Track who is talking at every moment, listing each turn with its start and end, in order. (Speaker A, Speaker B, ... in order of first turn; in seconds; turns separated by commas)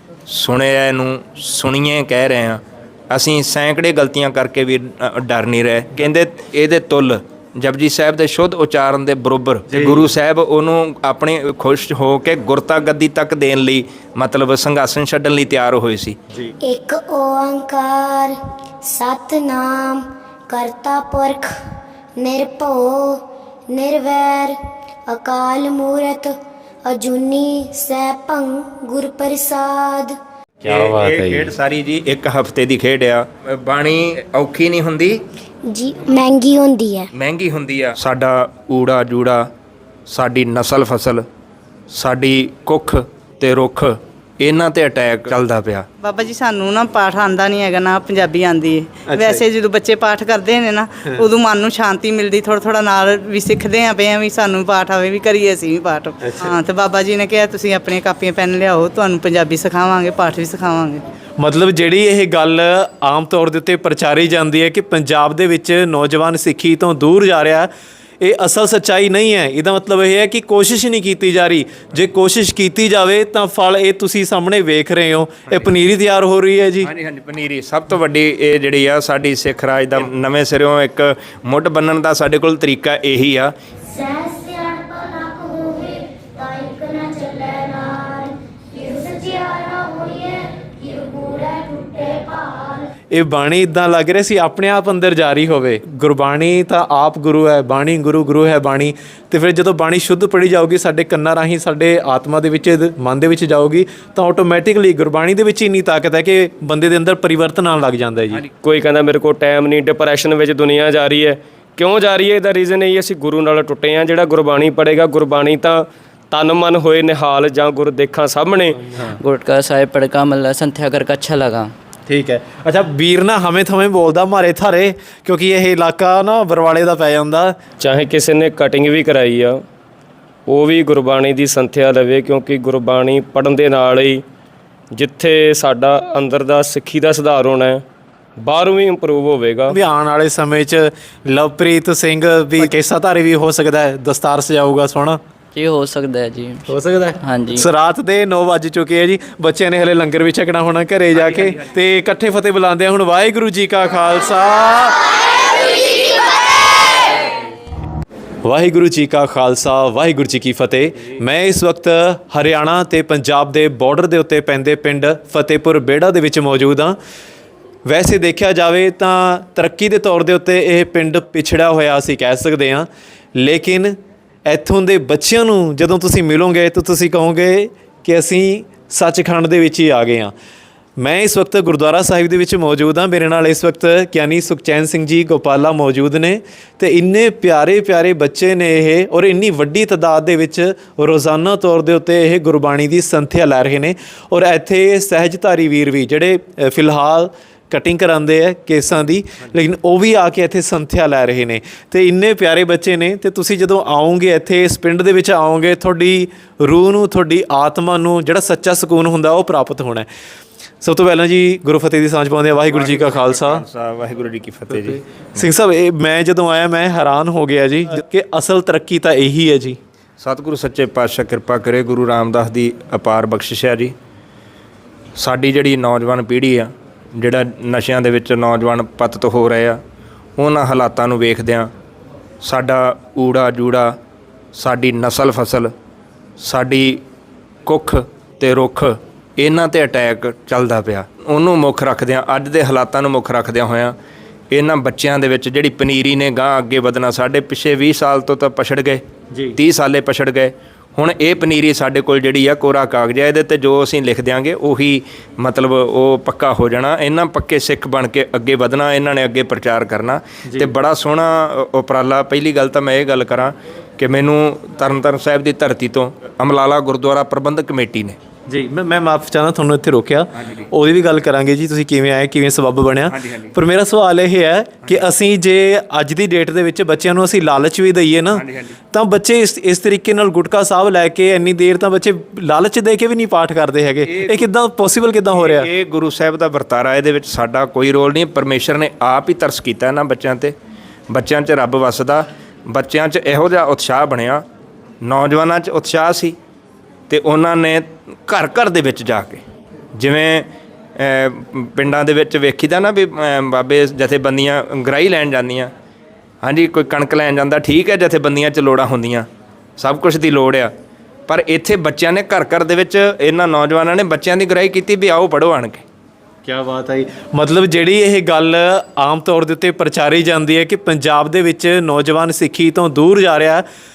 Speaker A: 0.3-16.2, Speaker B: 9.7-10.1, Speaker C: 16.6-21.5, Speaker C: 22.2-24.6, Speaker C: 25.1-30.2, Speaker B: 30.6-31.5, Speaker A: 30.6-35.2, Speaker C: 35.6-37.1, Speaker A: 37.1-39.5, Speaker A: 40.1-41.2, Speaker A: 41.9-45.9, Speaker D: 46.0-61.0, Speaker B: 49.1-49.4, Speaker B: 56.2-56.5, Speaker B: 61.4-76.9, Speaker A: 76.8-83.5, Speaker C: 83.9-92.9, Speaker B: 93.1-108.4, Speaker E: 108.6-118.8, Speaker F: 119.1-121.7, Speaker B: 122.1-127.6, Speaker E: 127.8-129.6, Speaker E: 130.5-134.2, Speaker E: 134.9-137.8, Speaker E: 138.4-139.8, Speaker B: 139.7-145.2, Speaker F: 145.5-146.6, Speaker B: 146.7-155.0, Speaker F: 147.2-147.7, Speaker A: 151.2-151.6, Speaker B: 158.4-167.0, Speaker B: 167.8-180.3, Speaker B: 181.0-210.1, Speaker B: 210.8-213.6, Speaker A: 212.7-215.5, Speaker B: 214.7-219.8, Speaker A: 220.2-223.9, Speaker A: 225.2-229.8, Speaker A: 230.4-231.7, Speaker A: 232.4-234.0, Speaker A: 234.5-235.7, Speaker A: 236.4-237.0, Speaker A: 237.7-243.9, Speaker A: 244.5-249.0, Speaker B: 249.3-249.6, Speaker A: 249.6-268.2, Speaker B: 260.4-260.7, Speaker B: 268.5-285.7, Speaker A: 270.3-270.7, Speaker A: 273.1-273.5, Speaker A: 278.3-278.8, Speaker A: 284.1-284.4, Speaker A: 285.3-290.5, Speaker A: 291.1-294.4, Speaker A: 295.0-296.4, Speaker A: 297.1-299.4, Speaker A: 299.9-305.7, Speaker A: 306.4-309.3, Speaker A: 309.8-310.7, Speaker A: 311.3-315.8, Speaker B: 316.4-323.6